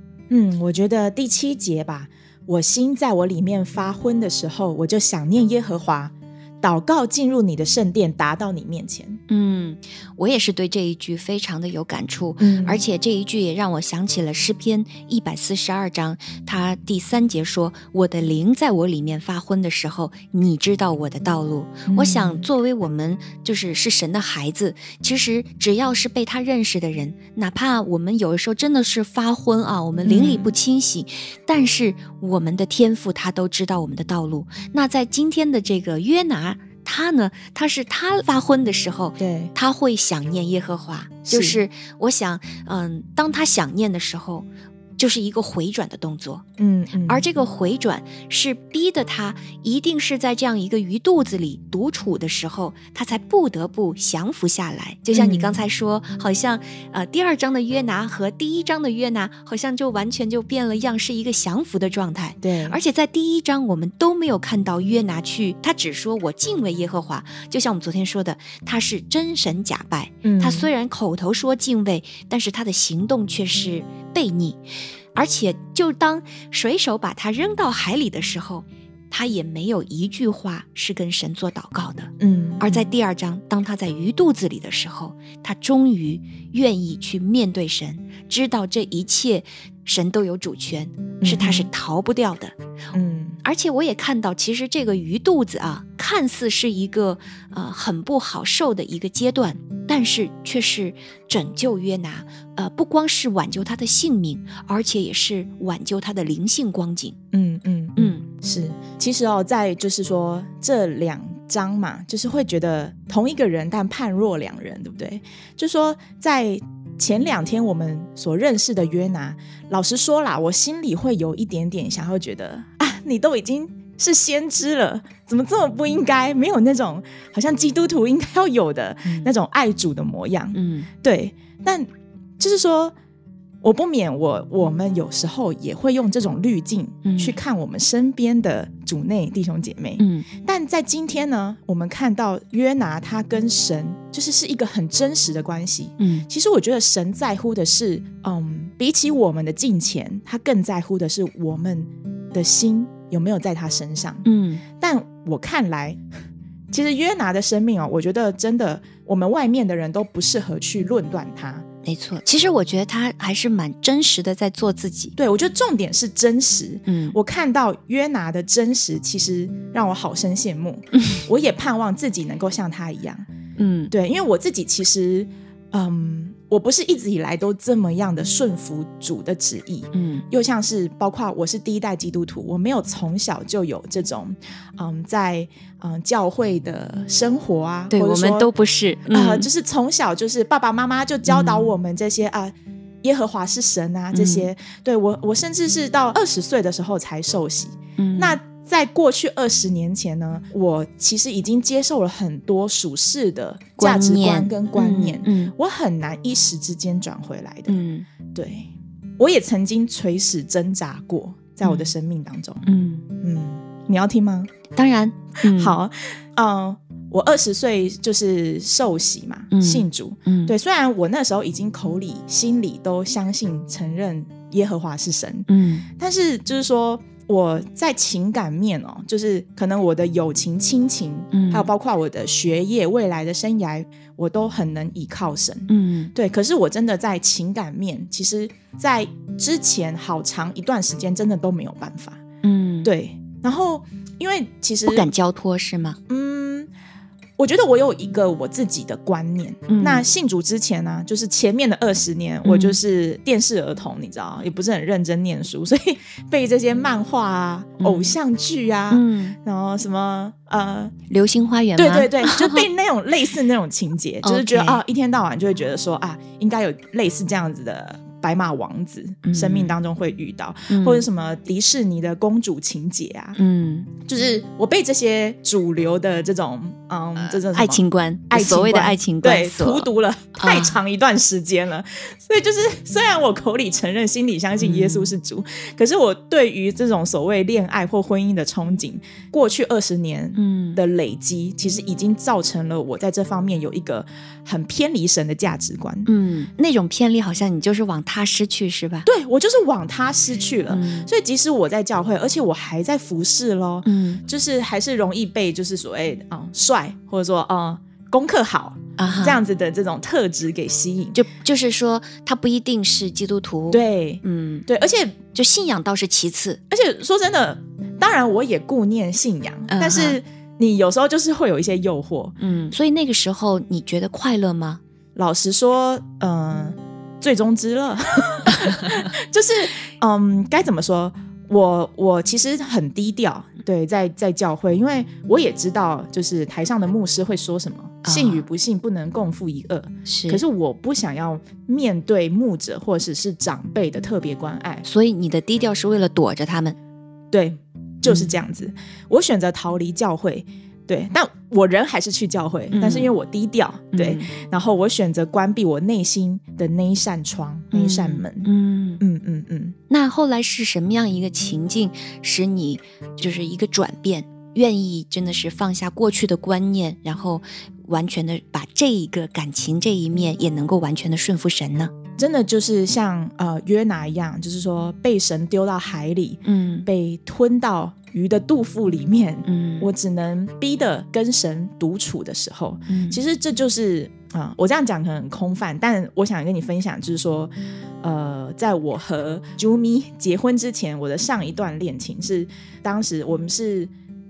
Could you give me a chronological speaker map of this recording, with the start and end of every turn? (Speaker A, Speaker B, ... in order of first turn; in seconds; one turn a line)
Speaker A: 0.3-9.2
Speaker B: 9.3-46.4
Speaker A: 12.4-12.8
Speaker A: 21.9-22.4
Speaker A: 30.0-30.5
Speaker A: 39.2-39.5
Speaker A: 41.3-41.6
Speaker A: 46.6-47.2
Speaker B: 47.1-74.6
Speaker A: 55.1-55.6
Speaker A: 62.4-62.8
Speaker A: 70.2-70.7
Speaker B: 75.2-92.5
Speaker A: 82.2-82.9
Speaker A: 91.2-91.7
Speaker A: 92.9-93.4
Speaker B: 93.4-107.2
Speaker A: 107.3-131.9
Speaker B: 108.0-108.2
Speaker B: 130.5-130.9
Speaker A: 132.4-132.9
Speaker A: 133.6-156.0
Speaker B: 137.0-137.4
Speaker B: 140.0-140.3
Speaker B: 146.0-146.3
Speaker B: 154.2-154.6
Speaker A: 156.7-161.7
Speaker B: 161.8-165.2
Speaker A: 165.2-173.3
Speaker B: 166.9-167.2
Speaker B: 173.6-173.9
Speaker A: 173.9-188.5
Speaker B: 179.9-180.2
Speaker B: 187.9-189.5
Speaker A: 189.1-207.8
Speaker B: 191.3-191.7
Speaker B: 194.1-194.5
Speaker B: 198.0-198.4
Speaker B: 203.8-205.5
Speaker B: 207.7-208.1
Speaker A: 208.3-212.7
Speaker B: 211.6-211.9
Speaker B: 212.7-213.1
Speaker A: 213.2-214.5
Speaker B: 214.8-215.8
Speaker A: 215.4-242.2
Speaker B: 219.5-220.5
Speaker B: 225.5-225.8
Speaker B: 231.3-231.7
Speaker B: 235.7-236.1
Speaker B: 242.4-242.9
Speaker A: 242.8-245.1
Speaker B: 244.9-246.0
Speaker A: 246.1-246.7
Speaker A: 247.4-260.9
Speaker B: 249.7-250.1
Speaker B: 252.4-252.8
Speaker B: 257.8-258.1
Speaker B: 258.9-259.4
Speaker B: 261.1-262.6
Speaker A: 261.8-273.4
Speaker B: 264.2-264.8
Speaker B: 269.2-269.8
Speaker B: 270.7-271.1
Speaker B: 273.4-273.9
Speaker A: 274.0-296.1
Speaker B: 277.4-280.8
Speaker B: 284.6-285.1
Speaker B: 290.4-290.8
Speaker B: 296.1-299.1
Speaker A: 299.1-311.2
Speaker B: 300.7-301.1
Speaker B: 303.9-304.2
Speaker B: 309.0-309.4
Speaker B: 311.1-314.7
Speaker A: 313.7-315.2
Speaker B: 315.3-316.6
Speaker A: 316.7-322.4
Speaker B: 319.7-320.2
Speaker B: 322.4-324.8
Speaker A: 325.2-344.9
Speaker B: 338.1-338.4
Speaker B: 340.1-340.4
Speaker B: 344.9-346.8
Speaker A: 347.3-358.5
Speaker B: 348.1-348.4
Speaker B: 352.7-353.1
Speaker B: 353.9-354.3
Speaker B: 357.7-359.0
Speaker A: 359.0-359.8
Speaker B: 359.9-371.9
Speaker A: 372.2-393.9
Speaker B: 376.4-376.9
Speaker B: 379.5-379.9
Speaker B: 382.9-383.2